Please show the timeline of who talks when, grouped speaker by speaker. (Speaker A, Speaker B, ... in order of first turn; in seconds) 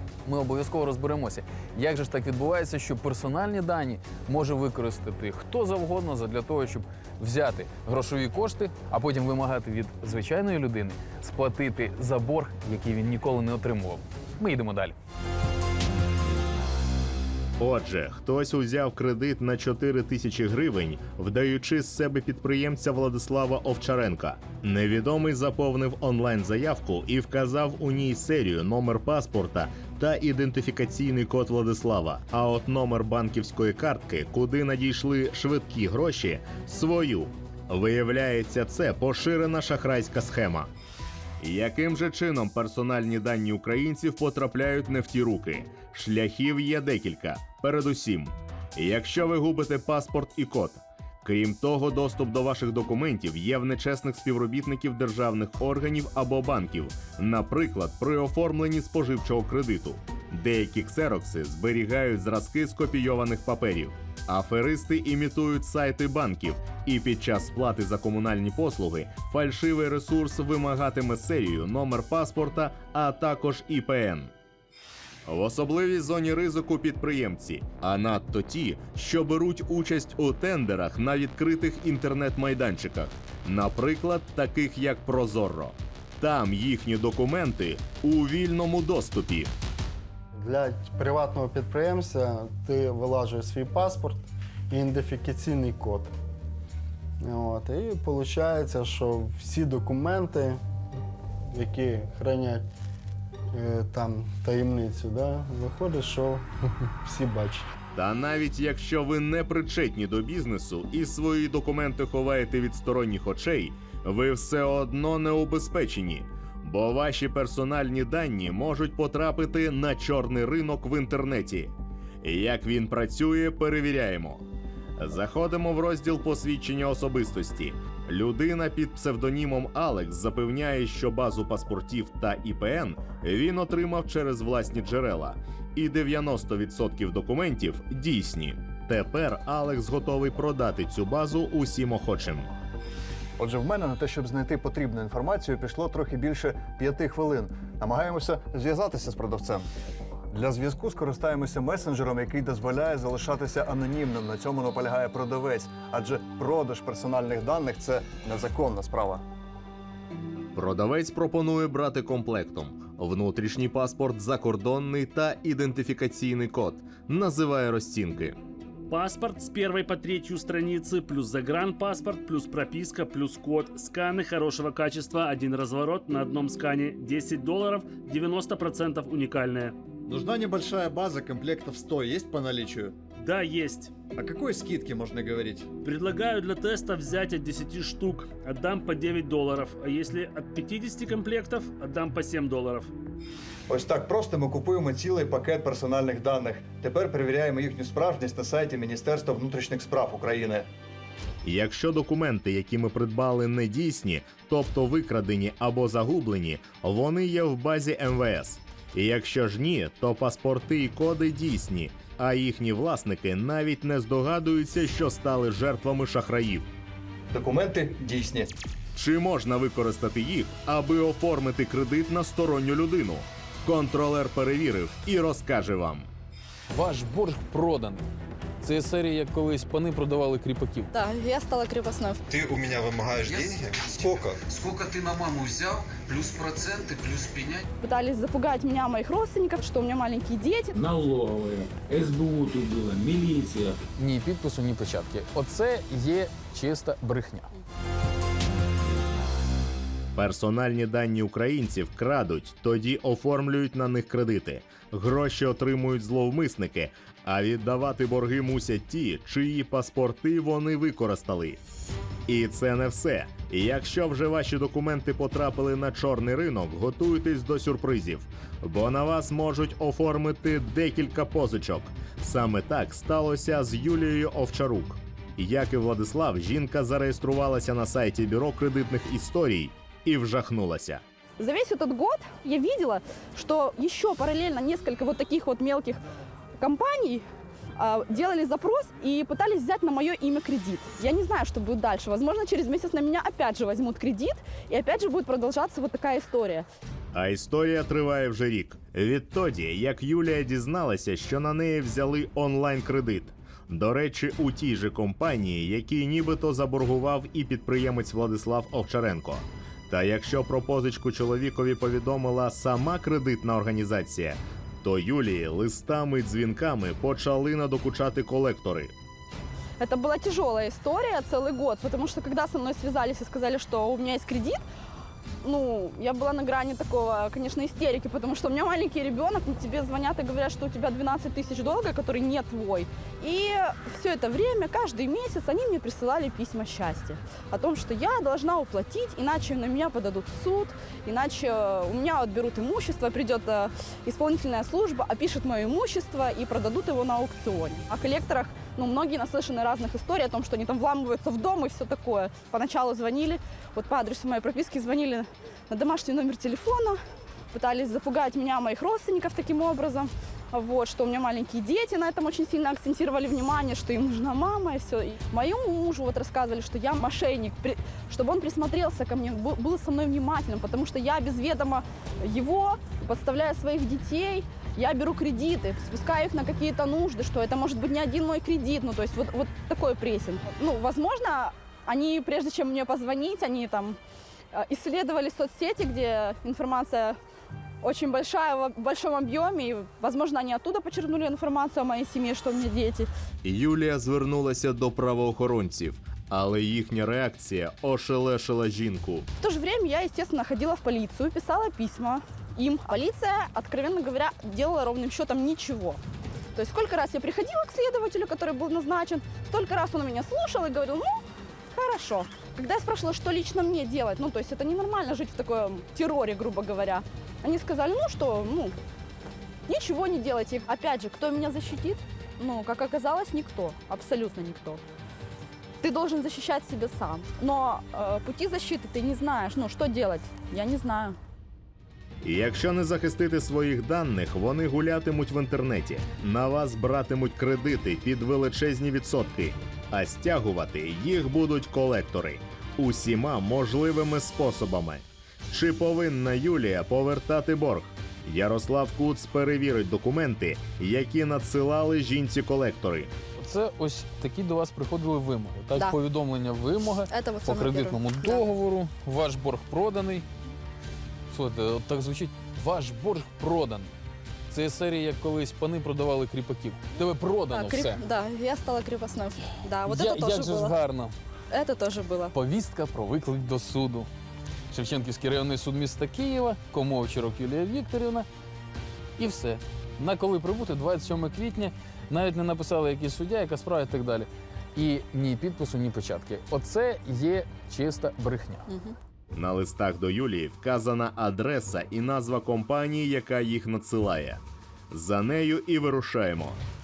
Speaker A: 0.2-15.0, 226.7-228.1, 228.6-230.9, 244.0-247.5, 453.4-460.2, 461.3-463.9, 464.5-468.0, 469.8-471.1, 472.3-474.1, 474.7-478.3, 479.2-488.7
Speaker B: 17.6-40.7, 41.4-74.3, 75.3-89.5, 108.0-124.4, 125.0-142.5, 160.6-168.4, 201.4-216.7, 218.9-226.1, 250.2-261.6, 262.3-281.0, 297.1-318.9, 393.4-399.3, 432.2-453.1, 489.3-496.6
Speaker C: 90.3-96.1, 97.2-100.6, 101.5-102.7, 103.5-107.7
Speaker D: 143.4-149.7, 150.3-159.2, 180.1-183.0, 184.2-185.7, 193.7-200.7, 217.3-218.5
Speaker E: 168.9-179.8, 183.2-183.9, 185.8-192.9
Speaker F: 230.9-232.2, 237.8-240.7, 281.4-286.0, 286.6-287.2, 287.8-296.7, 319.8-324.6, 325.4-357.0, 357.5-384.0, 384.5-387.2, 387.8-393.1, 399.4-406.0, 406.6-411.2, 411.8-418.8, 419.7-424.8, 425.8-431.2, 457.1-458.5, 467.5-470.8, 471.5-472.3
Speaker G: 232.3-234.4
Speaker H: 233.1-237.7
Speaker I: 240.7-243.8